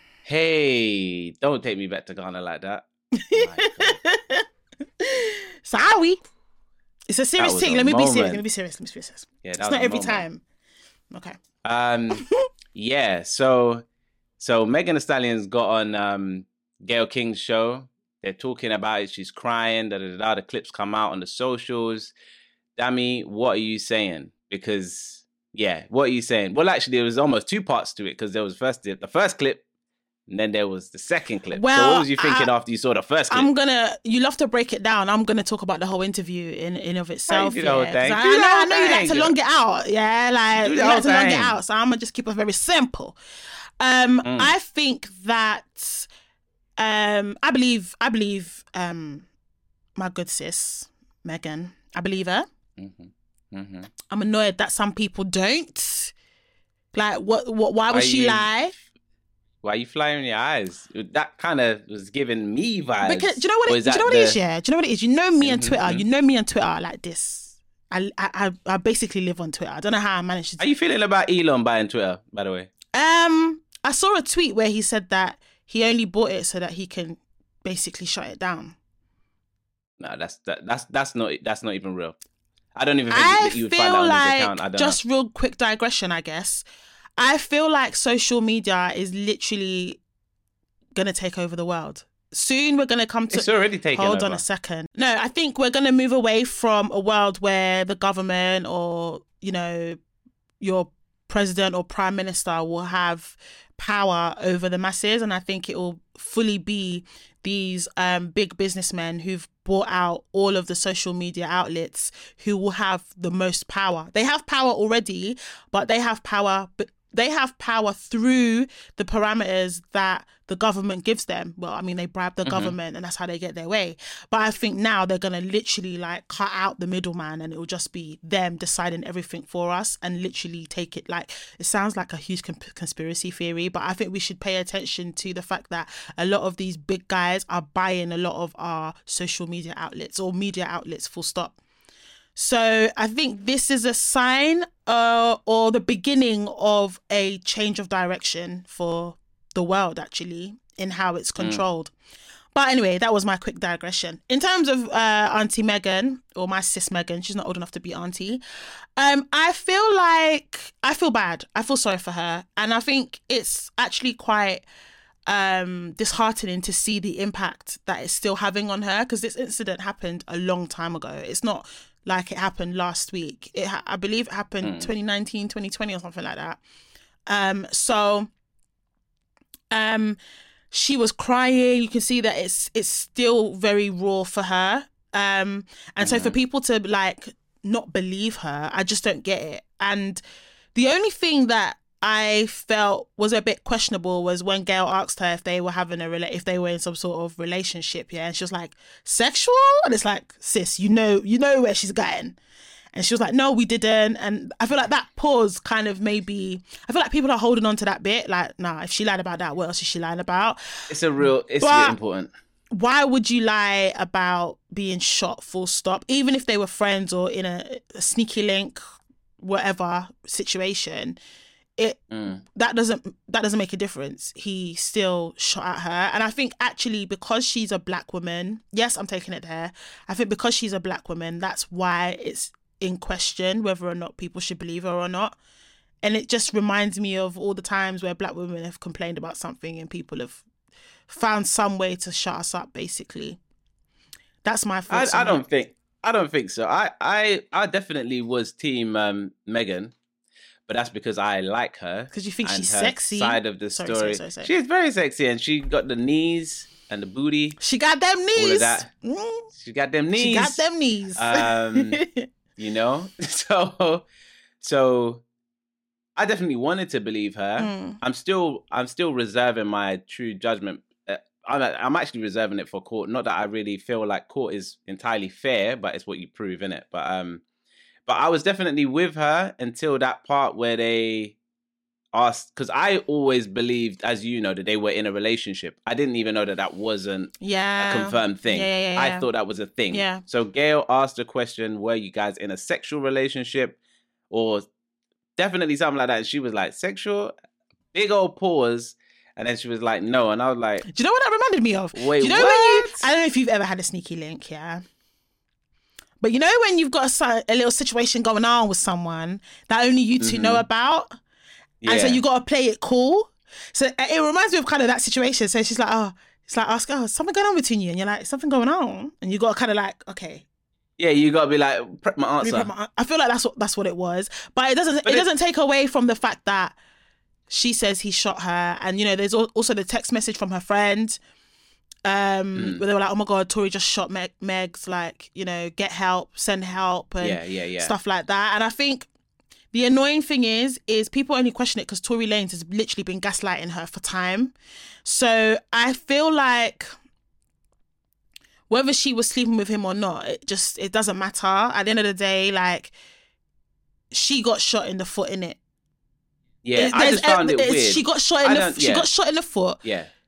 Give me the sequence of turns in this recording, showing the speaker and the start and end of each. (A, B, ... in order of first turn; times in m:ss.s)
0:00.2-0:04.0 A
0:03.2-0:04.4 B
0:05.0-0:06.2 B
0:07.1-0:10.4 B
0:07.4-0:08.4 A
0:09.4-0:10.2 A
0:11.1-0:11.4 B
0:11.6-0:13.8 A
0:14.4-0:22.1 A
0:22.8-0:29.6 A
0:30.3-0:33.5 A
0:31.5-0:32.5 B
0:33.3-0:43.2 B
0:37.3-0:39.3 A
0:40.6-0:41.6 A
0:43.8-0:46.1 B
0:44.2-0:44.5 A
0:46.8-0:49.3 B
0:50.0-0:52.5 B
0:52.8-0:53.9 A
0:54.1-0:56.1 B
0:56.9-0:58.7 B
0:57.9-0:58.6 A
0:59.6-1:04.4 A
1:03.0-1:10.6 B
1:05.4-1:06.0 A
1:10.6-1:12.7 A
1:12.9-1:18.8 B
1:20.0-1:22.2 A
1:22.7-1:25.0 A
1:23.1-1:26.6 B
1:27.2-1:30.0 B
1:30.9-1:40.0 B
1:33.3-1:34.4 A
1:40.6-2:21.6 B
2:02.4-2:02.7 A
2:22.4-2:31.9 B
2:32.5-2:38.4 B
2:39.0-2:44.6 B
2:45.3-2:56.6 B
2:54.6-2:54.9 A
2:57.3-2:58.3 B
2:59.7-3:00.2 B
3:00.7-3:10.2 B
3:06.0-3:06.4 A
3:10.7-3:22.4 B
3:22.9-3:30.6 B
3:30.9-3:32.3 A
3:31.2-3:32.0 B
3:32.7-3:38.8 B
3:39.4-3:41.2 B
3:42.1-3:42.4 A
3:42.5-3:55.4 B
3:56.0-4:00.4 B
4:01.1-4:03.4 B
4:04.4-4:05.4 B
4:04.9-4:09.9 A
4:10.7-4:17.6 A
4:12.1-4:14.5 B
4:17.6-4:19.5 B
4:18.4-4:18.9 A
4:19.5-4:20.6 A
4:20.2-4:22.3 B
4:21.1-4:22.0 A
4:22.6-4:24.0 A
4:24.6-4:25.2 A
4:26.2-4:37.4 A
4:27.6-4:28.0 B
4:38.0-4:41.4 A
4:42.1-4:53.8 A
4:47.4-4:49.3 B
4:49.9-4:50.2 B
4:54.3-4:54.6 A
4:55.4-4:57.3 A
4:57.9-5:00.8 A
5:00.9-5:04.8 B
5:01.9-5:03.1 A
5:06.2-5:11.2 B
5:10.2-5:10.6 A
5:11.8-5:12.2 A
5:11.8-5:20.4 B
5:21.0-5:22.7 A
5:22.4-5:26.8 B
5:27.5-5:31.2 B
5:32.0-5:39.1 B
5:32.6-5:32.8 A
5:37.2-5:37.9 A
5:39.7-5:46.8 B
5:48.7-5:52.9 B
5:54.1-5:55.6 B
5:56.6-5:59.1 A
5:56.8-5:59.8 B
5:59.8-6:00.1 A